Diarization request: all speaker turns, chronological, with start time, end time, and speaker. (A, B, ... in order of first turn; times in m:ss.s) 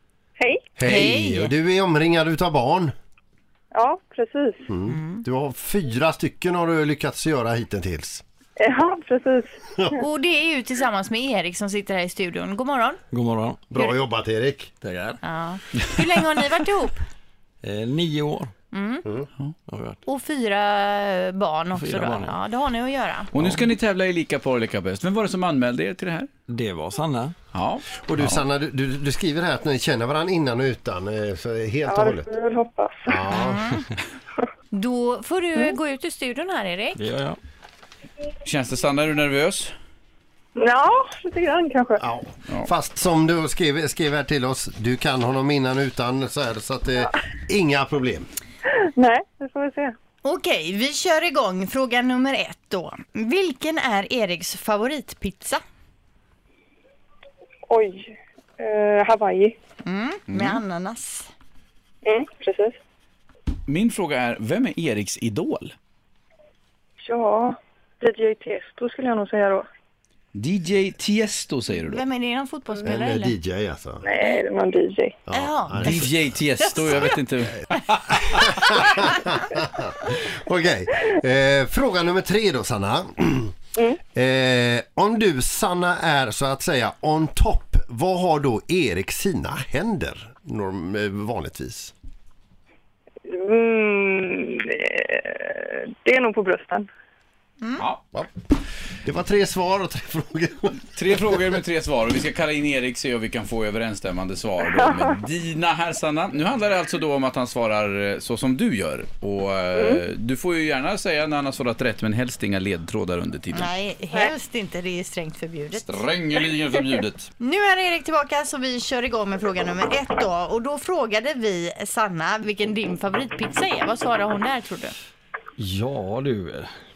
0:00.4-0:00.7 A
0:00.8-0:02.9 B
0:00.8-0:01.5 C
0:03.7-0:04.7 A
0:04.7-0:08.2 B
0:04.9-0:05.2 C
0:08.6-0:10.0 A
0:10.0-0:13.0 C
0:13.1-0:13.7 D
0:13.7-0:14.7 B
0:14.8-0:15.2 D
0:15.2-0:17.0 C
0:17.6-0:18.5 D
0:18.7-0:19.0 C
0:19.7-0:20.0 D
0:20.0-0:23.5 C
0:21.7-0:22.4 D
0:23.3-0:26.3 E
0:26.5-0:27.3 D
0:27.5-0:28.4 E
0:28.0-0:32.2 B
0:31.9-0:33.2 A
0:33.1-0:33.7 B
0:33.3-0:33.8 C
0:34.7-0:37.0 C
0:36.9-0:37.4 D
0:38.4-0:39.7 E
0:40.6-0:42.0 A
0:42.0-0:48.3 B
0:48.7-0:49.9 A
0:50.2-0:55.6 C
0:57.7-0:59.6 A
0:59.8-1:01.3 C
1:00.3-1:00.6 E
1:02.0-1:02.8 A
1:03.7-1:05.7 E
1:07.0-1:09.6 A
1:10.3-1:12.0 E
1:11.7-1:13.4 C
1:12.8-1:14.0 B
1:14.0-1:15.2 A
1:15.2-1:16.3 B
1:15.3-1:17.1 C
1:15.8-1:18.5 E
1:18.2-1:23.6 B
1:24.1-1:31.9 B
1:33.3-1:36.9 A
1:39.0-1:40.8 B
1:40.9-1:53.7 E
1:44.6-1:45.2 A
1:49.7-1:50.0 A
1:53.5-1:56.0 C
1:55.7-1:57.3 E
1:57.4-2:04.9 C
2:05.6-2:06.7 D